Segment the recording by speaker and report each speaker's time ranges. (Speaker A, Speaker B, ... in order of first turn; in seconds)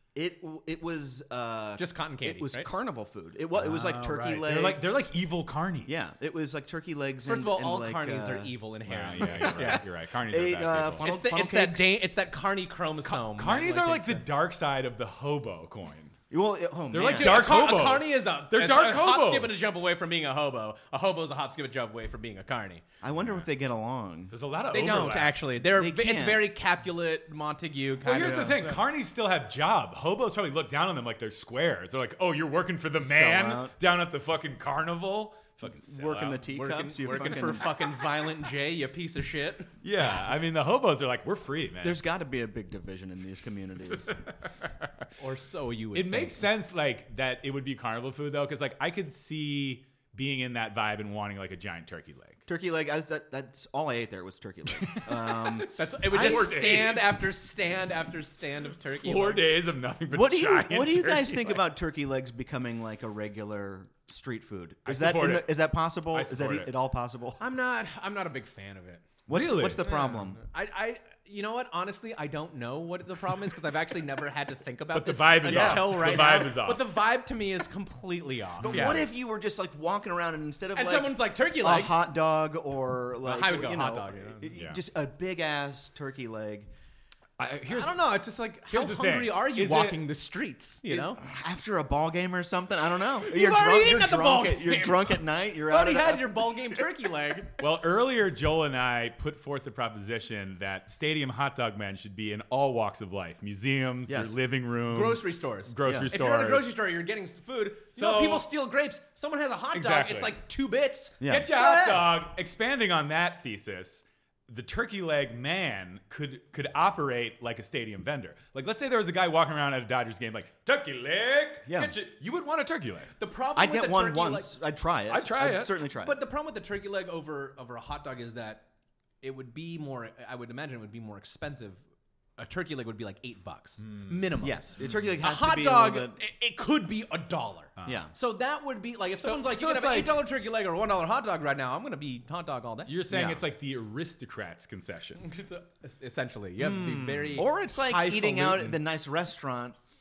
Speaker A: 0.1-5.1, 5.8-8.5, 9.2-12.0, 16.3-17.7, 23.0-24.3, 25.6-26.5, 33.0-33.7, 35.7-37.7, 41.8-44.2, 52.5-56.6, 60.1-67.4, 69.3-70.4, 75.4-76.4, 78.6-86.7, 90.9-96.8, 104.1-104.3, 105.8-106.1, 111.2-111.5, 121.7-121.9, 123.5-126.2, 134.4-136.2, 137.8-138.1, 143.1-143.4, 147.3-149.8
Speaker B: 1.8-2.7, 3.5-4.5, 7.2-9.8, 11.0-14.2, 17.0-22.8, 24.7-28.8, 36.5-39.7, 45.2-46.5, 55.5-59.5, 67.4-69.0, 69.8-79.0, 80.7-82.1, 83.2-84.5, 87.7-91.2, 93.2-97.5, 104.8-112.1, 123.2-124.5, 125.9-128.6, 129.2-131.8, 132.4-134.7, 135.2-142.9, 145.2-148.8
Speaker C: 4.4-6.1, 8.8-11.1, 13.0-16.1, 16.9-19.5, 23.1-23.5, 24.3-25.4, 28.0-36.4, 39.8-42.0, 44.0-44.9, 45.9-52.4, 54.7-57.2, 59.0-61.7, 64.8-65.6, 66.1-66.7, 69.3-70.1, 74.9-76.8, 78.6-79.1, 84.5-84.8, 87.4-88.0, 88.7-90.0, 97.6-106.7, 107.9-108.5, 109.7-110.4, 111.2-123.1, 125.1-125.8, 134.8-135.1, 137.8-138.0, 139.1-140.2, 142.8-145.2, 146.6-147.4